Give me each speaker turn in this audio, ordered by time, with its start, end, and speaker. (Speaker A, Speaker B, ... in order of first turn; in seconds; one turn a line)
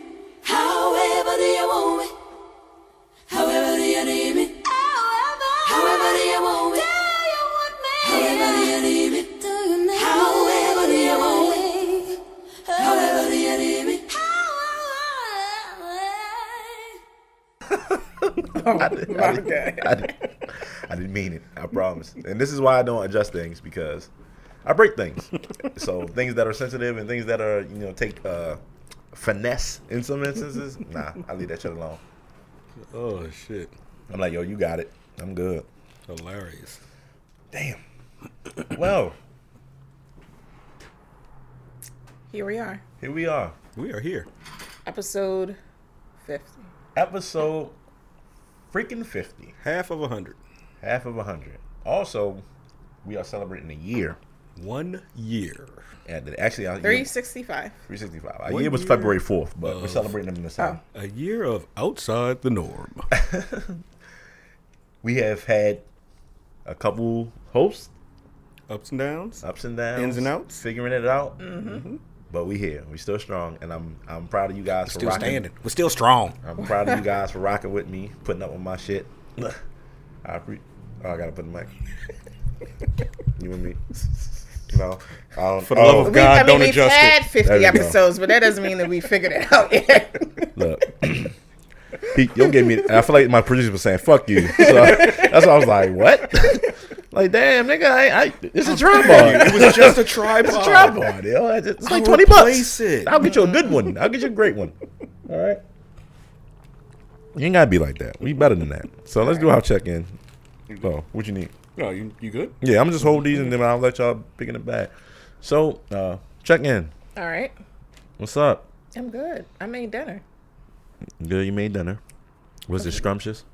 Speaker A: 0.4-2.2
Speaker A: 3.3-17.0
Speaker B: 18.5-20.1
Speaker C: 18.6-24.1
Speaker C: 24.6-28.6
Speaker C: 29.1-32.0
Speaker D: 32.9-33.7
Speaker C: 34.1-35.7
Speaker D: 36.1-36.8
Speaker C: 37.5-37.8
Speaker C: 38.7-39.2
Speaker B: 42.3-42.8
Speaker C: 43.0-43.5
Speaker D: 43.8-44.3
Speaker B: 44.9-45.6
Speaker B: 46.2-46.6
Speaker C: 47.0-47.7
Speaker C: 48.7-49.5
Speaker D: 49.6-50.4
Speaker C: 50.8-52.4
Speaker C: 53.0-54.2
Speaker D: 54.6-55.9
Speaker C: 56.1-57.1
Speaker B: 56.8-57.7
Speaker C: 57.9-60.8
Speaker D: 58.5-60.1
Speaker D: 60.9-63.1
Speaker C: 63.1-63.8
Speaker C: 65.0-65.8
Speaker C: 66.7-67.9
Speaker D: 68.7-69.4
Speaker C: 69.4-71.4
Speaker D: 70.0-70.6
Speaker B: 71.4-71.8
Speaker D: 71.6-72.0
Speaker C: 72.3-75.4
Speaker D: 74.9-76.4
Speaker C: 76.4-79.6
Speaker C: 80.2-81.7
Speaker C: 83.4-86.4
Speaker D: 85.6-87.2
Speaker B: 86.0-90.5
Speaker C: 87.4-88.0
Speaker C: 90.5-91.3
Speaker C: 92.1-104.7
Speaker B: 94.5-95.3
Speaker D: 98.6-101.1
Speaker D: 101.8-103.2
Speaker C: 105.3-105.6
Speaker C: 107.3-110.1
Speaker C: 110.8-111.5
Speaker D: 111.8-112.5
Speaker C: 112.6-114.9
Speaker C: 115.4-116.9
Speaker B: 117.2-117.5
Speaker C: 118.2-118.7
Speaker B: 119.0-120.2
Speaker C: 121.2-122.0
Speaker C: 122.7-123.4